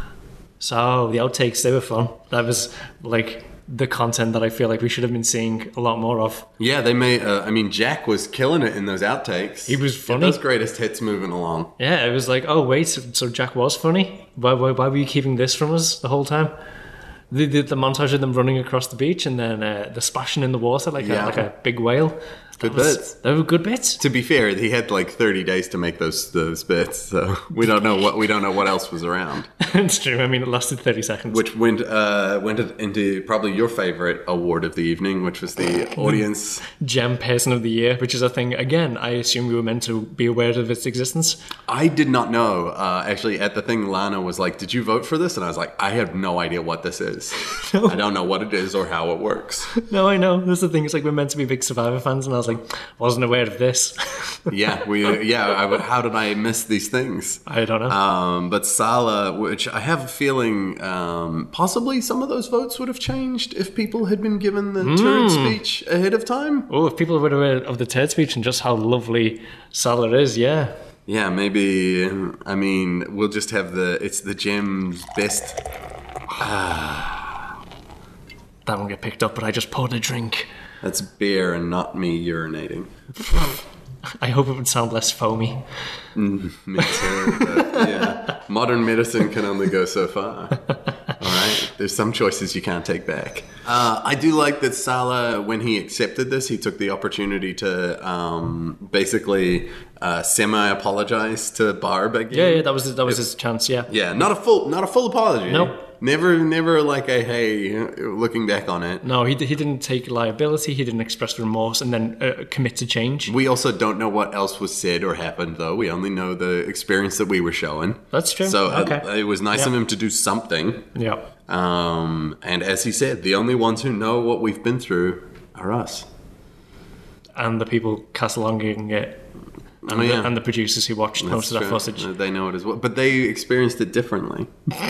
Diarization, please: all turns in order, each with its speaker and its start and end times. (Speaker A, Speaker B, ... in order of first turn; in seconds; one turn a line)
Speaker A: 0.6-6.5
Speaker B: 6.6-11.7
Speaker A: 9.7-10.4
Speaker A: 11.8-16.5
Speaker A: 17.3-24.0
Speaker B: 21.0-21.5
Speaker B: 22.6-23.1
Speaker B: 24.0-29.5
Speaker A: 29.6-31.4
Speaker B: 31.3-36.6
Speaker A: 36.0-41.4
Speaker B: 41.7-49.7
Speaker A: 47.5-48.0
Speaker A: 49.7-54.5
Speaker B: 54.5-66.7
Speaker A: 57.5-58.0
Speaker A: 64.8-65.6
Speaker A: 66.7-70.7
Speaker B: 71.1-75.6
Speaker B: 76.4-77.4
Speaker A: 78.7-80.5
Speaker B: 80.8-83.6
Speaker A: 84.2-85.6
Speaker B: 86.1-90.6
Speaker A: 86.8-88.2
Speaker B: 91.2-103.2
Speaker A: 102.3-103.9
Speaker B: 103.9-109.0
Speaker A: 105.5-105.8
Speaker A: 109.0-113.3
Speaker B: 113.3-120.9
Speaker A: 118.1-119.7
Speaker A: 120.9-121.2
Speaker B: 121.5-126.1
Speaker A: 127.4-129.2
Speaker B: 129.8-130.3
Speaker A: 129.8-132.1
Speaker B: 131.2-134.5